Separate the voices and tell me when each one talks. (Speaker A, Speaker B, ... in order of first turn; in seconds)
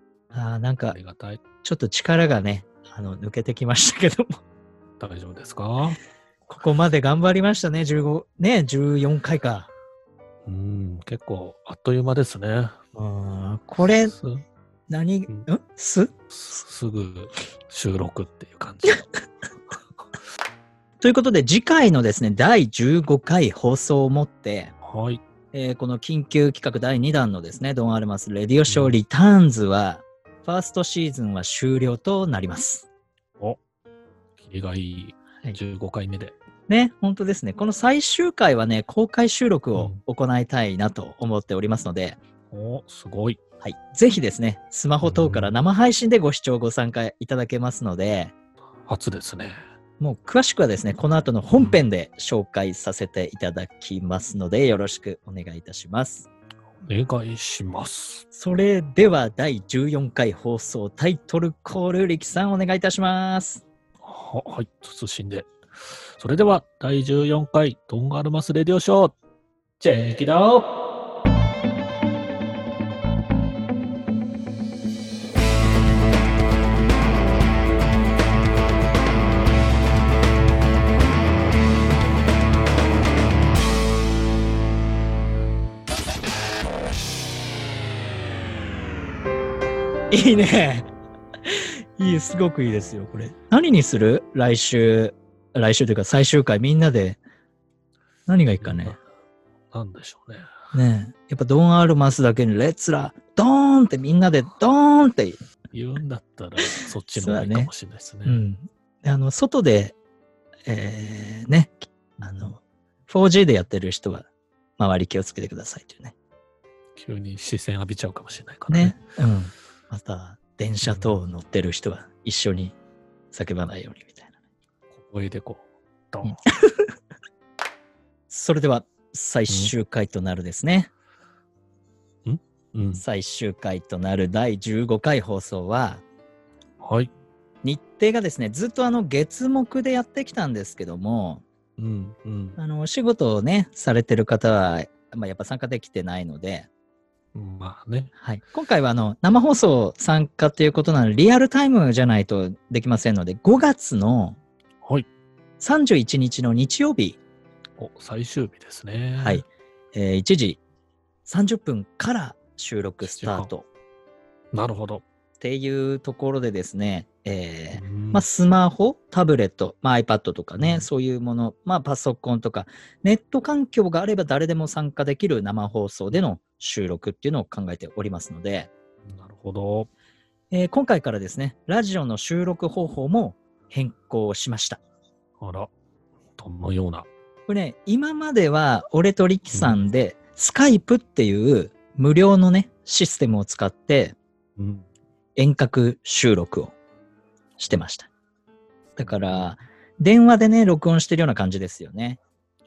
Speaker A: 0.3-1.0, 1.6-4.3, 6.5-9.7, 12.9-14.1, 14.9-16.1, 21.0-24.7, 25.5-32.9, 36.7-42.2, 43.6-48.3, 50.0-56.3, 58.3-63.6, 90.1-90.9, 91.5-97.2, 98.3-99.0, 100.7-105.4, 107.2-107.7, 108.2-109.9, 110.7-116.2, 118.7-122.7, 123.3-124.3, 126.2-126.7, 128.3-130.9, 132.9-136.0, 137.6-141.4, 142.6-146.7, 148.2-154.4, 155.6-157.2, 159.2-160.6, 161.2-163.7, 165.4-178.7, 180.5-184.8, 187.5-194.2, 195.3-196.7, 197.6-198.1, 199.0-202.2
Speaker B: 0.9-1.4, 5.0-6.0, 10.4-12.8, 14.1-14.4, 16.3-19.1, 24.8-25.2, 28.7-29.0, 34.4-36.3, 42.5-43.4, 45.0-45.5, 48.9-49.6, 56.8-58.2, 64.0-69.2, 69.8-70.7, 98.6-99.0, 99.7-100.5, 105.7-108.4, 117.0-119.0, 120.8-121.1, 124.9-126.4, 132.2-133.0, 136.8-137.1, 141.8-142.6, 147.3-148.1, 157.8-159.4, 163.0-163.5, 164.5-165.0, 167.7-168.2, 170.6-170.9, 179.0-179.9, 185.4-185.7, 186.4-187.1, 189.5-189.8, 194.6-194.9, 199.0-199.6